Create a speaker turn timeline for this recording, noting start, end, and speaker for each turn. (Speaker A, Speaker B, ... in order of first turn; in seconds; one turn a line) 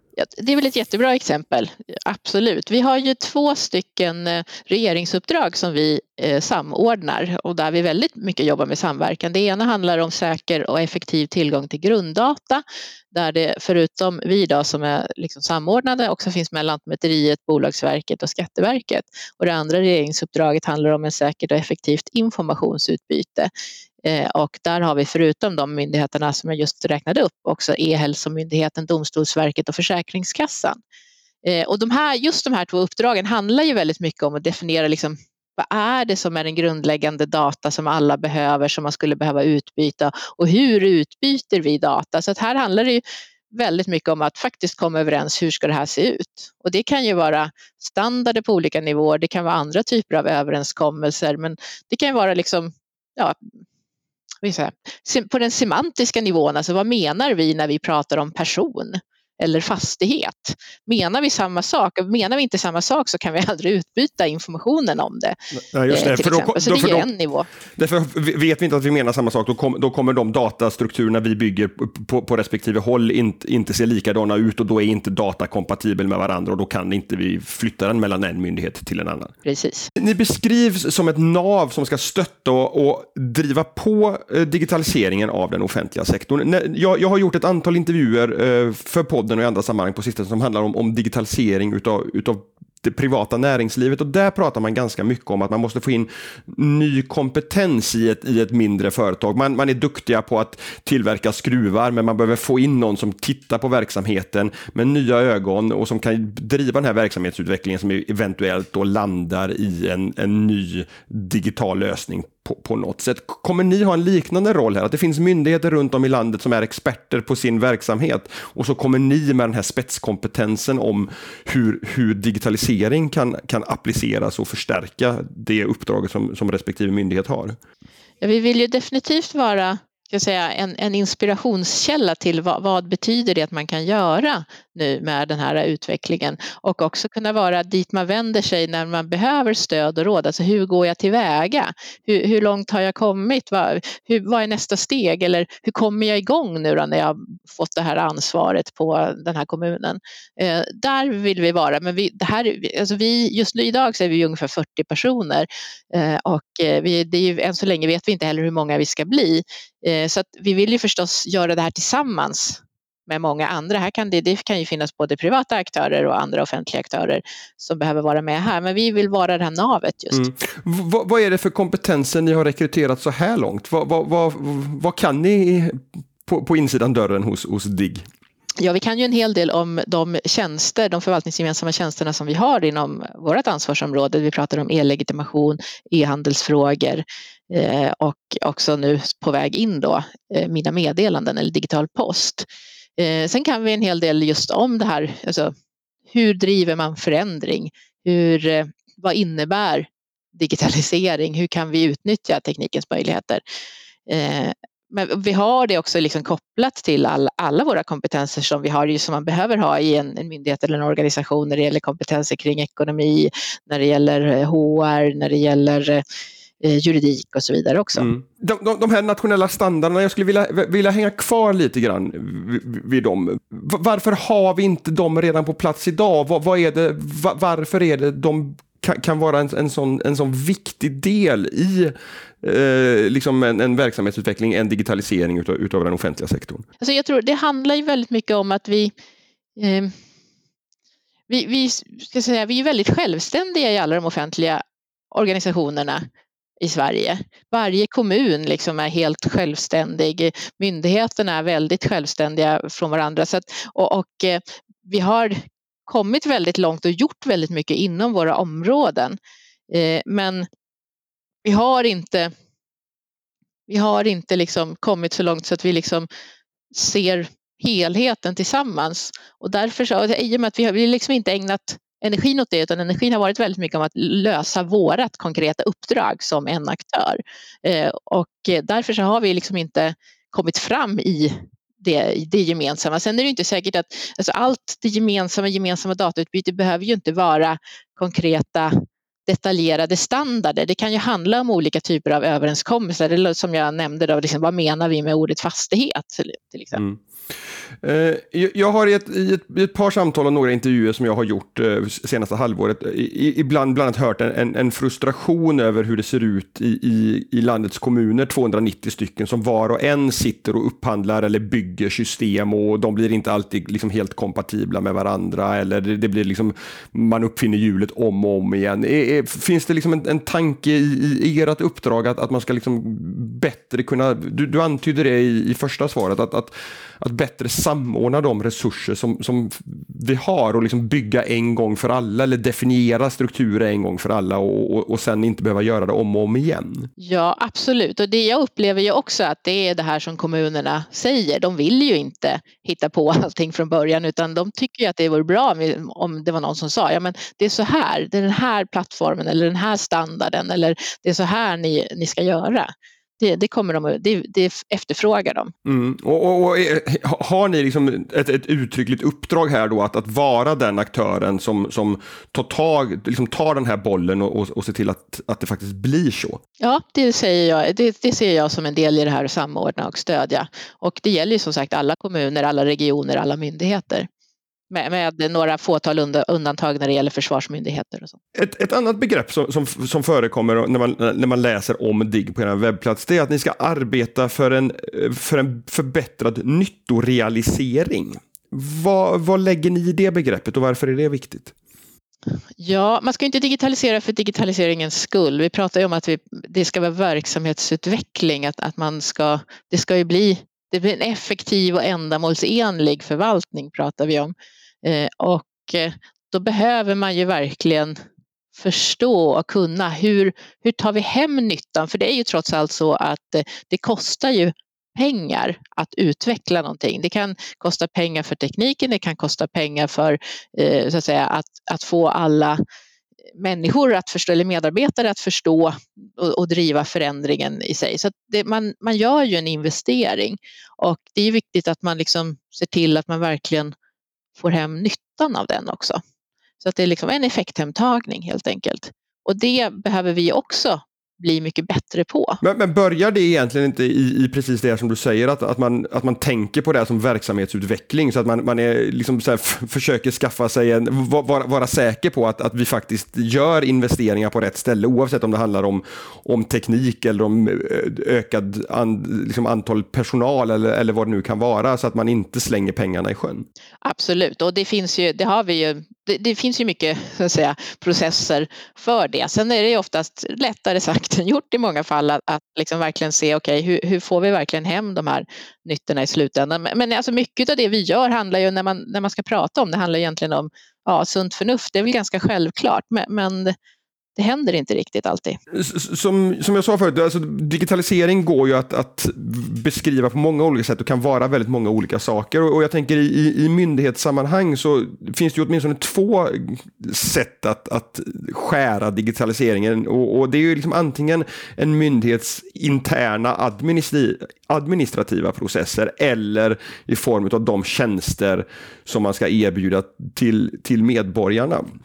Speaker A: 0.2-23.5
Speaker A: 24.0-30.8
Speaker A: 31.4-43.0
Speaker A: 43.5-53.5
Speaker A: 54.4-65.4
Speaker B: 65.5-67.1
Speaker A: 65.9-67.5
Speaker B: 67.8-79.3
Speaker A: 79.5-79.9
Speaker B: 80.0-127.6
Speaker A: 128.2-170.3
Speaker B: 170.1-178.1
Speaker A: 178.6-195.5
Speaker A: 196.1-203.4
Speaker A: 204.1-216.0
Speaker A: 216.6-218.1
Speaker B: 218.0-236.6
Speaker A: 236.8-238.9
Speaker A: 239.6-239.9
Speaker A: 241.3-246.1
Speaker A: 246.6-259.2
Speaker A: 259.7-260.5
Speaker A: 261.4-262.3
Speaker A: 263.7-266.1
Speaker A: 266.7-296.8
Speaker B: 296.7-297.0
Speaker B: 297.8-336.9
Speaker A: 337.0-355.5
Speaker B: 355.6-366.4
Speaker A: 366.6-374.1
Speaker A: 374.7-378.2
Speaker B: 378.3-391.5
Speaker A: 392.6-407.9
Speaker A: 408.5-422.6
Speaker A: 423.4-433.7
Speaker A: 434.4-436.0
Speaker A: 436.6-442.4
Speaker B: 442.4-463.5
Speaker A: 463.8-483.6
Speaker A: 484.2-485.4
Speaker B: 485.5-511.6